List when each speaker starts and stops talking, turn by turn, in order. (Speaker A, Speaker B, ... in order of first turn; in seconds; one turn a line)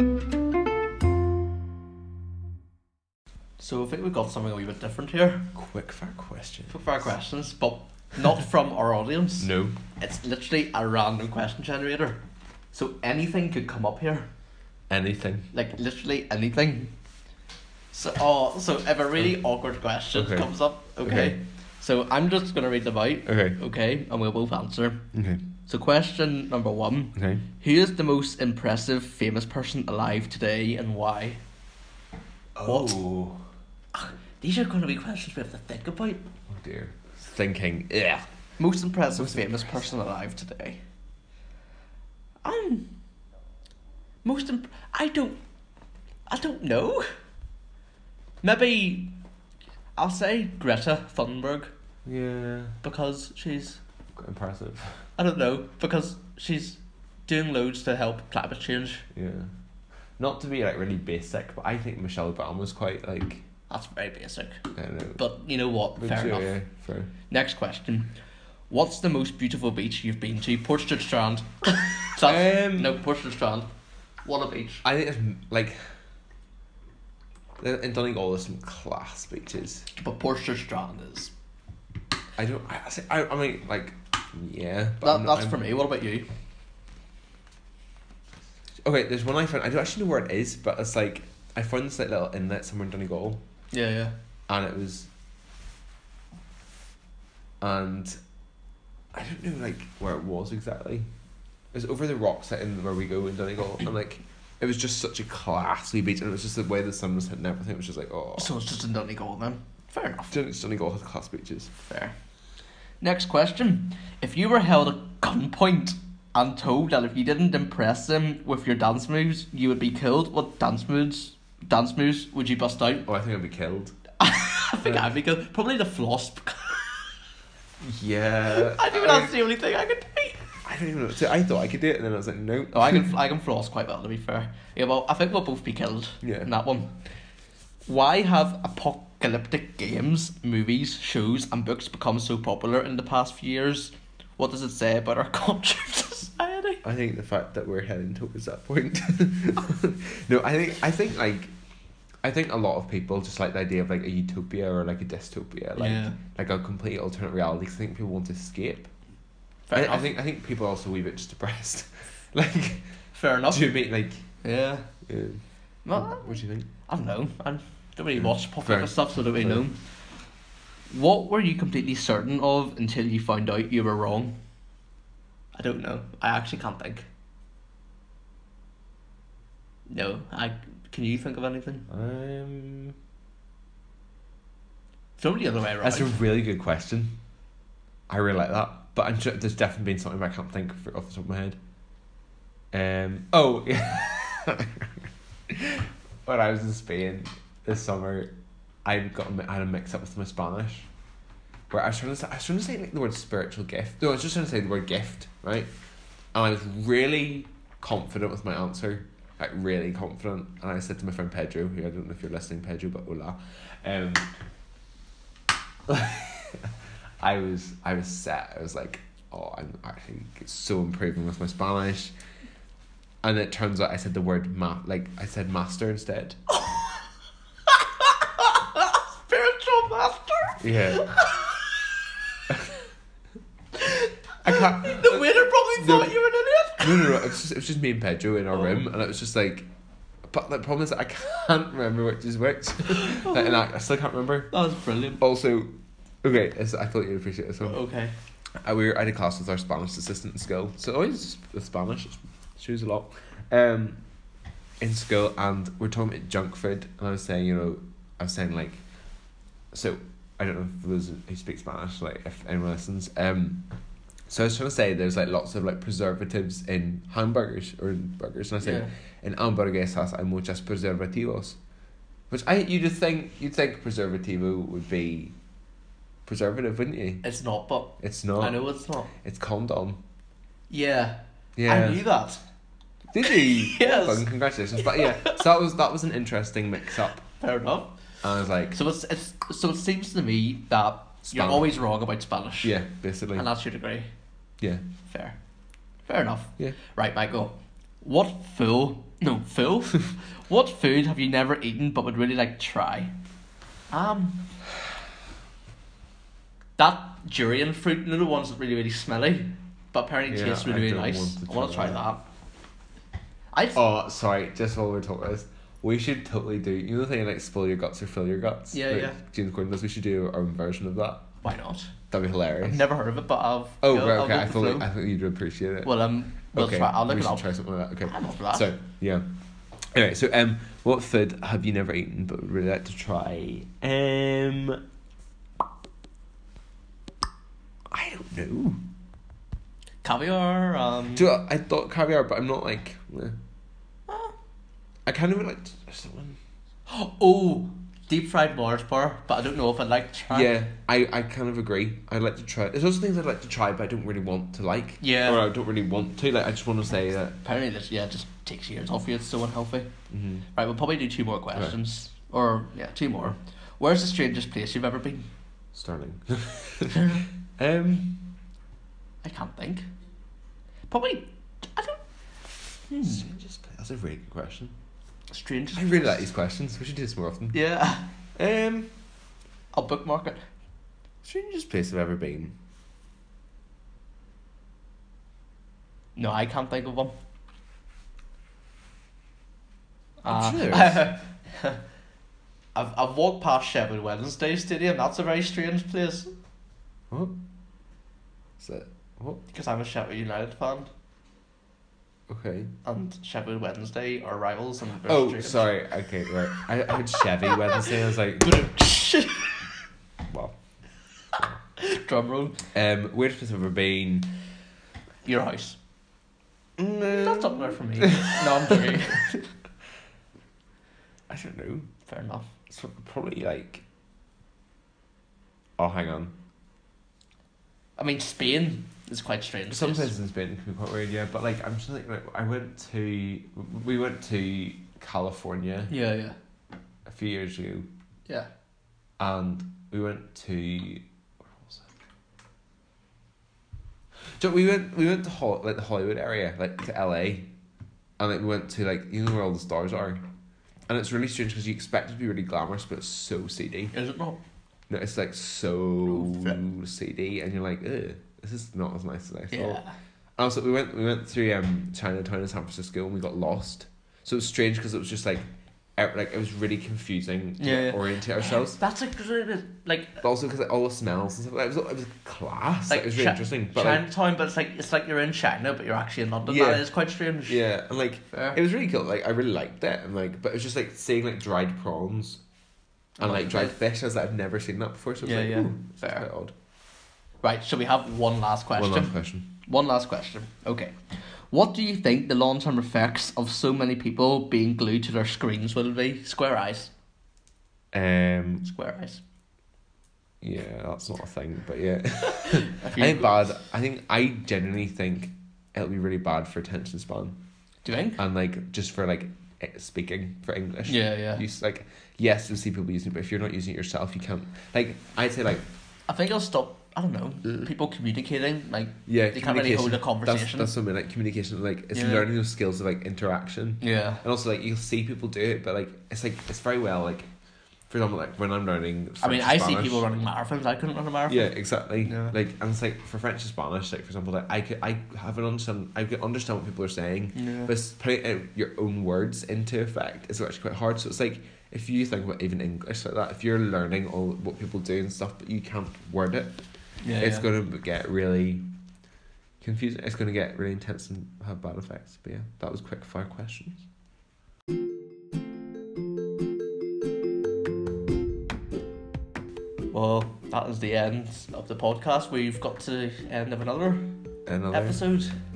Speaker A: 3.6-5.5
Speaker B: 5.5-7.0
Speaker A: 6.7-12.2
Speaker B: 9.4-9.8
Speaker A: 12.7-14.3
Speaker B: 14.9-15.5
Speaker A: 15.5-16.9
Speaker A: 17.9-25.1
Speaker B: 20.1-20.5
Speaker B: 21.0-21.4
Speaker B: 23.2-23.6
Speaker B: 25.1-25.4
Speaker A: 25.6-31.4
Speaker B: 27.1-27.4
Speaker B: 32.5-33.4
Speaker A: 32.6-33.0
Speaker A: 33.9-36.2
Speaker B: 36.5-38.2
Speaker A: 38.6-40.8
Speaker B: 39.2-39.6
Speaker A: 42.4-42.9
Speaker A: 44.2-45.4
Speaker A: 46.3-47.1
Speaker A: 48.4-49.1
Speaker A: 50.0-51.7
Speaker B: 52.0-52.8
Speaker A: 52.8-53.8
Speaker B: 54.1-55.1
Speaker A: 55.2-59.0
Speaker B: 59.1-59.5
Speaker B: 60.2-63.5
Speaker A: 63.7-64.6
Speaker B: 64.7-65.2
Speaker A: 65.2-66.5
Speaker B: 66.0-67.1
Speaker A: 67.3-68.1
Speaker A: 68.7-73.7
Speaker B: 72.2-72.9
Speaker A: 74.2-74.8
Speaker B: 74.8-75.8
Speaker B: 77.6-79.9
Speaker A: 79.9-81.3
Speaker B: 82.3-85.6
Speaker A: 85.0-86.3
Speaker B: 88.8-93.4
Speaker A: 93.7-94.1
Speaker B: 94.5-95.1
Speaker B: 97.6-98.2
Speaker B: 99.1-101.1
Speaker B: 101.7-108.5
Speaker A: 108.4-110.3
Speaker B: 110.3-111.7
Speaker A: 111.9-112.1
Speaker A: 113.0-123.1
Speaker B: 123.0-124.0
Speaker A: 124.2-127.2
Speaker B: 124.8-125.1
Speaker B: 127.8-129.3
Speaker A: 128.5-130.5
Speaker B: 130.6-133.1
Speaker A: 132.7-137.0
Speaker B: 136.2-136.5
Speaker A: 137.8-146.8
Speaker B: 146.8-151.5
Speaker B: 152.2-158.9
Speaker A: 155.8-156.2
Speaker A: 159.7-160.1
Speaker B: 159.7-162.9
Speaker A: 163.1-163.7
Speaker B: 163.5-164.3
Speaker A: 164.4-164.9
Speaker B: 165.1-166.7
Speaker A: 165.8-169.8
Speaker B: 168.2-169.6
Speaker A: 170.9-174.3
Speaker A: 175.5-177.1
Speaker A: 179.9-181.9
Speaker B: 181.9-182.9
Speaker A: 185.2-186.2
Speaker B: 185.8-187.2
Speaker B: 188.1-191.6
Speaker B: 192.7-200.9
Speaker B: 201.7-205.7
Speaker B: 206.3-214.3
Speaker B: 215.9-222.1
Speaker B: 223.2-226.4
Speaker A: 226.5-227.1
Speaker A: 227.7-232.0
Speaker B: 230.6-231.3
Speaker A: 233.7-237.3
Speaker B: 234.4-236.2
Speaker B: 236.8-239.7
Speaker A: 238.5-238.8
Speaker B: 240.2-244.6
Speaker A: 243.0-243.6
Speaker A: 244.5-245.2
Speaker B: 245.2-247.8
Speaker A: 247.6-248.1
Speaker B: 248.6-254.0
Speaker B: 254.8-258.8
Speaker B: 259.7-263.6
Speaker B: 264.3-271.6
Speaker A: 268.6-268.9
Speaker B: 272.3-275.3
Speaker B: 276.2-277.2
Speaker A: 277.2-279.1
Speaker B: 278.0-278.6
Speaker B: 279.1-280.0
Speaker A: 280.7-282.4
Speaker B: 281.6-282.0
Speaker B: 283.1-287.2
Speaker A: 283.2-285.4
Speaker A: 287.4-288.0
Speaker B: 288.2-288.8
Speaker A: 288.7-292.8
Speaker B: 291.2-291.7
Speaker B: 292.6-293.5
Speaker A: 293.4-294.1
Speaker A: 295.1-295.4
Speaker A: 296.1-303.1
Speaker A: 303.9-304.5
Speaker A: 306.8-312.2
Speaker B: 310.3-312.1
Speaker A: 313.5-313.8
Speaker B: 313.7-321.3
Speaker A: 318.7-319.2
Speaker A: 321.4-321.9
Speaker B: 322.1-322.9
Speaker A: 322.6-324.9
Speaker B: 323.8-329.2
Speaker A: 325.8-327.5
Speaker A: 328.0-328.7
Speaker B: 329.8-334.8
Speaker B: 337.9-338.8
Speaker A: 340.0-341.3
Speaker B: 341.1-343.4
Speaker A: 344.1-344.3
Speaker B: 345.1-346.4
Speaker A: 346.9-350.5
Speaker B: 350.3-357.4
Speaker A: 355.0-355.4
Speaker A: 357.4-359.9
Speaker B: 360.1-360.5
Speaker A: 360.5-365.3
Speaker B: 361.5-361.8
Speaker B: 365.7-368.4
Speaker A: 366.9-367.2
Speaker A: 369.2-369.9
Speaker A: 370.9-372.0
Speaker A: 372.9-373.2
Speaker B: 373.0-374.8
Speaker A: 375.3-376.3
Speaker B: 375.7-377.6
Speaker A: 377.5-378.1
Speaker B: 378.3-378.9
Speaker A: 379.7-380.4
Speaker B: 381.2-382.6
Speaker A: 386.1-387.1
Speaker A: 390.2-391.8
Speaker B: 390.3-391.1
Speaker A: 392.7-396.3
Speaker B: 397.1-397.4
Speaker B: 398.6-399.4
Speaker A: 399.5-400.9
Speaker B: 402.3-402.8
Speaker A: 402.8-405.7
Speaker B: 405.0-408.7
Speaker A: 407.4-409.6
Speaker B: 410.2-410.5
Speaker A: 411.8-412.6
Speaker B: 412.7-414.3
Speaker A: 415.2-415.8
Speaker B: 416.8-419.2
Speaker A: 417.0-419.4
Speaker B: 421.3-421.9
Speaker A: 422.1-422.5
Speaker B: 422.7-423.8
Speaker B: 425.8-426.3
Speaker A: 428.0-430.1
Speaker B: 429.7-435.9
Speaker A: 435.9-436.4
Speaker B: 437.1-437.9
Speaker B: 439.2-441.9
Speaker B: 444.4-447.5
Speaker B: 448.2-450.2
Speaker B: 450.9-453.9
Speaker A: 453.9-454.4
Speaker B: 454.9-459.8
Speaker A: 456.1-456.6
Speaker A: 459.5-459.9
Speaker B: 460.4-465.4
Speaker B: 466.0-468.8
Speaker A: 467.6-470.2
Speaker B: 470.2-474.0
Speaker A: 472.9-477.6
Speaker B: 476.4-476.9
Speaker B: 477.4-482.4
Speaker A: 478.3-478.6
Speaker A: 483.2-483.8
Speaker B: 483.2-486.5
Speaker A: 485.2-486.3
Speaker A: 487.4-490.9
Speaker B: 488.8-489.5
Speaker A: 491.5-496.9
Speaker B: 497.9-498.6
Speaker A: 498.6-499.2
Speaker B: 500.4-507.4
Speaker A: 502.3-503.4
Speaker A: 507.8-508.2
Speaker B: 508.2-515.7
Speaker A: 510.9-511.4
Speaker A: 516.1-520.7
Speaker B: 519.0-527.3
Speaker A: 521.9-522.2
Speaker A: 523.8-524.2
Speaker B: 527.9-530.0
Speaker A: 529.2-531.5
Speaker B: 531.3-546.5
Speaker A: 532.0-532.3
Speaker A: 537.3-537.7
Speaker A: 547.0-547.5
Speaker B: 547.2-548.7
Speaker B: 549.6-553.8
Speaker A: 559.9-564.2
Speaker B: 564.5-565.0
Speaker A: 564.7-565.4